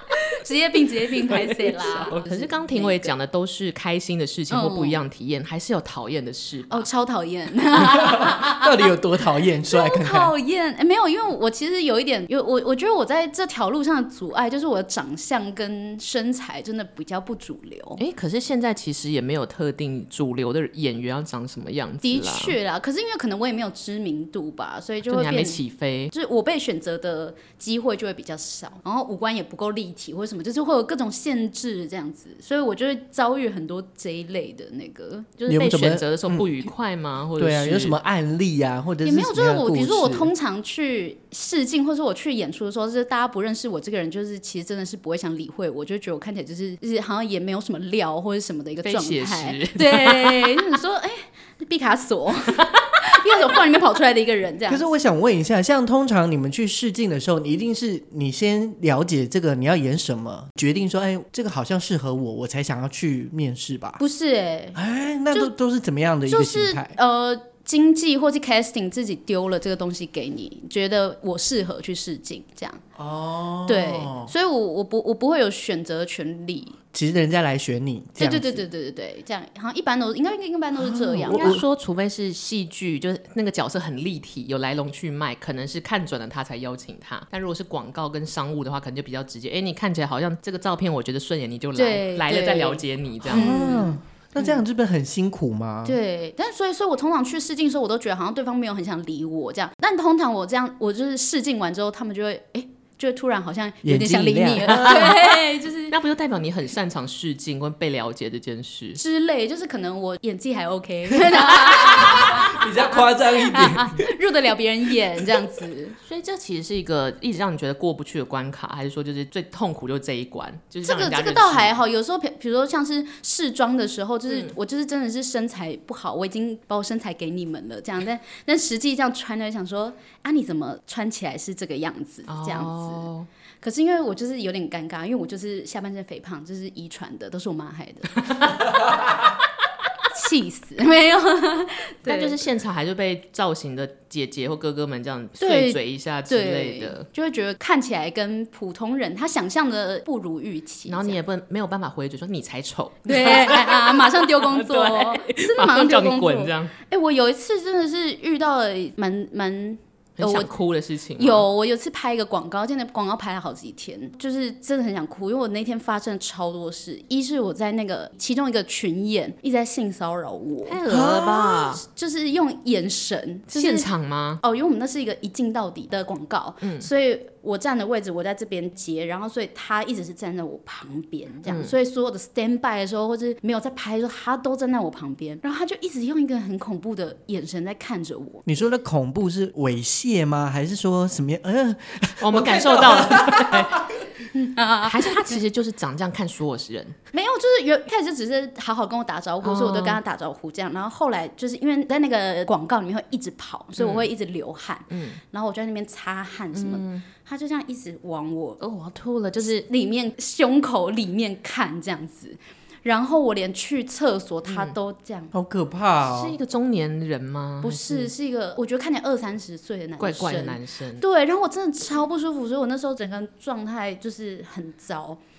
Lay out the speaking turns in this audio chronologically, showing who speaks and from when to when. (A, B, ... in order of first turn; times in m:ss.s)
0:00.4-0:03.1 A
0:01.2-0:06.9 B
0:04.5-0:05.0 A
0:06.7-0:08.9 A
0:07.8-0:10.3 C
0:09.7-0:18.0 A
0:18.0-0:22.6 B
0:22.0-0:25.6 A
0:25.0-0:26.1 B
0:26.1-0:35.3 A
0:35.4-0:38.0 B
0:35.5-0:36.5 C
0:37.4-0:40.3 C
0:39.0-0:54.8 A
0:48.8-0:50.7 B
0:52.5-0:53.0 B
0:54.7-1:04.0 C
1:04.0-1:04.8 A
1:04.7-1:06.9 C
1:06.3-1:12.8 A
1:13.0-1:14.3 C
1:13.7-1:16.8 A
1:16.9-1:18.6 C
1:18.2-1:21.6 A
1:20.7-1:21.6 C
1:21.3-1:33.5 B
1:31.7-1:34.6 A
1:33.3-1:36.0 C
1:35.8-1:45.9 A
1:43.8-1:45.1 C
1:44.6-1:49.0 B
1:49.0-1:55.9 A
1:51.3-1:54.0 C
1:56.0-2:01.8 B
2:00.8-2:13.1 A
2:04.3-2:04.5 B
2:12.3-2:13.3 B
2:13.6-2:18.8 A
2:20.1-2:22.4 A
2:22.0-2:27.1 B
2:25.4-2:31.2 A
2:30.8-2:36.7 B
2:33.0-2:40.5 A
2:40.2-2:41.5 B
2:41.2-2:50.8 A
2:50.6-2:51.8 B
2:50.8-2:51.6 C
2:51.5-2:53.9 A
2:53.5-2:54.4 B
2:54.4-3:08.4 A
2:56.6-2:56.9 B
3:01.4-3:01.7 B
3:08.4-3:13.8 C
3:12.2-3:13.8 B
3:14.3-3:15.4 A
3:14.8-3:17.0 B
3:17.1-3:28.6 A
3:19.4-3:20.0 B
3:23.8-3:24.1 B
3:24.9-3:25.2 B
3:26.5-3:27.0 B
3:28.6-3:29.6 B
3:29.4-3:35.3 A
3:34.4-3:34.7 B
3:35.3-3:36.4 C
3:36.0-3:38.1 B
3:37.6-3:45.2 A
3:40.0-3:41.0 B